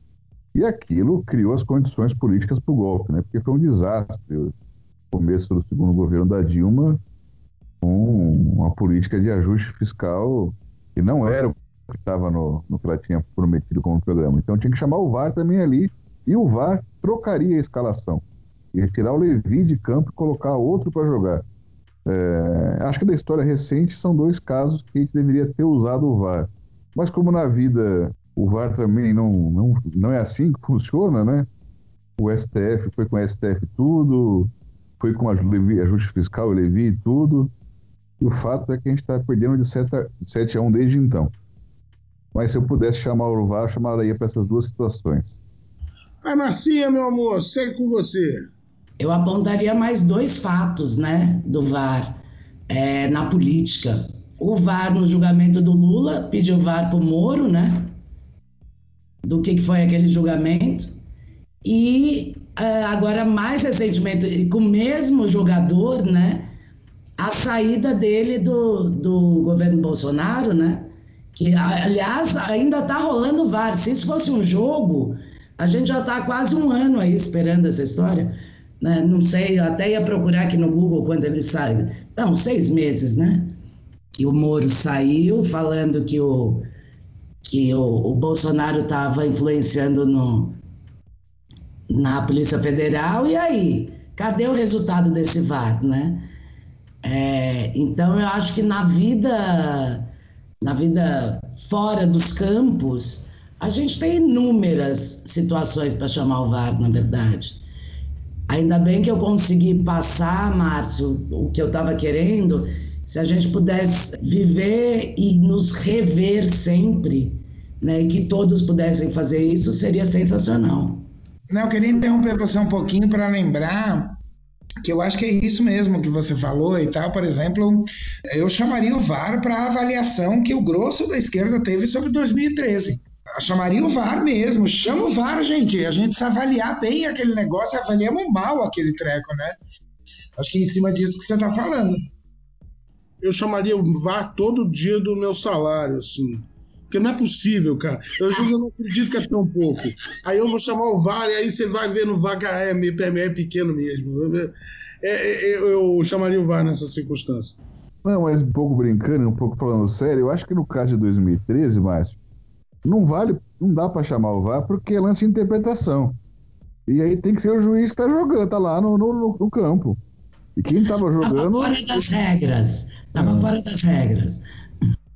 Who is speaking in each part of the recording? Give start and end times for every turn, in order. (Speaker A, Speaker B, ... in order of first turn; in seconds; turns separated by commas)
Speaker A: 0.5-4.5, Speaker A: 5.1-7.0, Speaker A: 7.8-21.4, Speaker A: 22.1-31.5, Speaker A: 32.2-37.5, Speaker A: 38.2-41.3, Speaker A: 42.3-45.4, Speaker B: 46.2-48.5, Speaker C: 49.0-52.2, Speaker C: 52.7-58.0, Speaker C: 59.2-60.9, Speaker C: 61.6-66.5, Speaker C: 67.2-83.6, Speaker C: 84.2-86.7, Speaker C: 87.5-90.6, Speaker C: 91.9-96.3, Speaker C: 97.0-100.1, Speaker C: 100.6-107.6, Speaker C: 108.5-121.1, Speaker D: 121.5-124.2, Speaker D: 124.8-139.6, Speaker D: 140.4-142.0, Speaker B: 143.2-157.6, Speaker A: 158.0-162.2, Speaker A: 162.8-166.2, Speaker A: 166.9-170.0, Speaker A: 170.6-172.1, Speaker C: 171.2-174.4